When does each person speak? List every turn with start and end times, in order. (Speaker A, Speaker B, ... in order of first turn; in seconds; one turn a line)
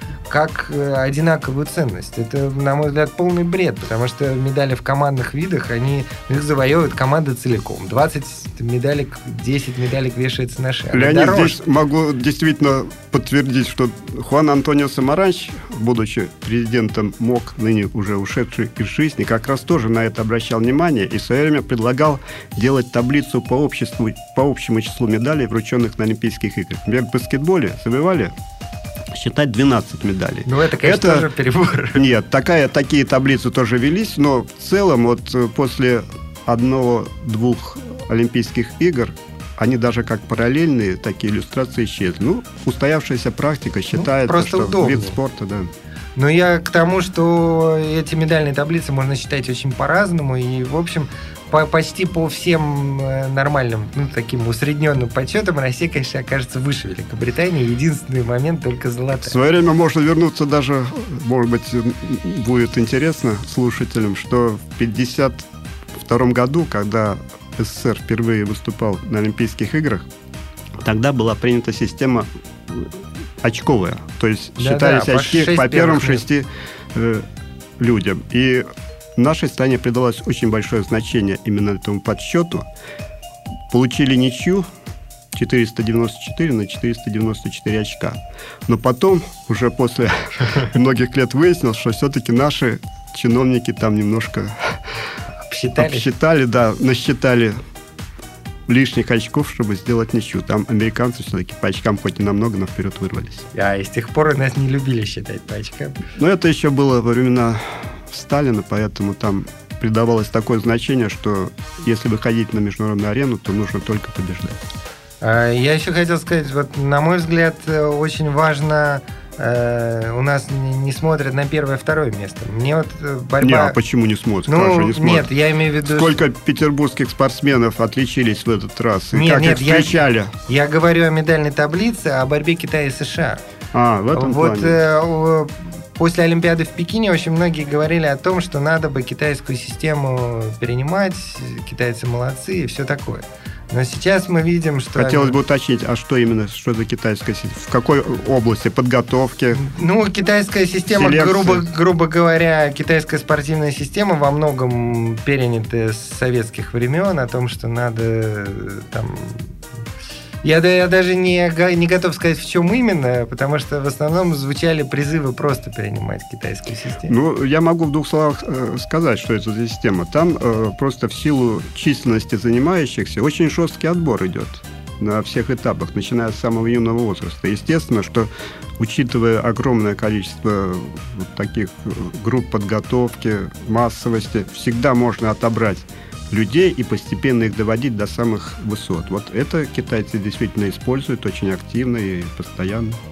Speaker A: 0.3-11.6
Speaker B: 10.9-28.3
Speaker B: 29.1-31.3
Speaker A: 30.4-32.0
Speaker B: 31.9-45.7
Speaker A: 43.9-45.2
Speaker A: 46.2-59.4
Speaker B: 59.2-70.1
Speaker B: 70.8-77.2
Speaker A: 74.6-76.3
Speaker B: 77.8-82.7
Speaker B: 83.7-84.7
Speaker B: 85.3-95.0
Speaker A: 95.4-96.1
Speaker B: 95.8-97.6
Speaker B: 98.7-103.5
Speaker A: 103.5-106.0
Speaker B: 106.2-114.6
Speaker A: 115.2-123.8
Speaker B: 123.4-125.3
Speaker A: 124.5-126.2
Speaker B: 125.9-130.3
Speaker A: 129.1-133.4
Speaker B: 133.7-134.8
Speaker A: 134.1-145.4
Speaker B: 144.9-149.6
Speaker A: 149.5-159.5
Speaker B: 150.9-151.6
Speaker A: 160.4-167.1
Speaker B: 167.1-193.0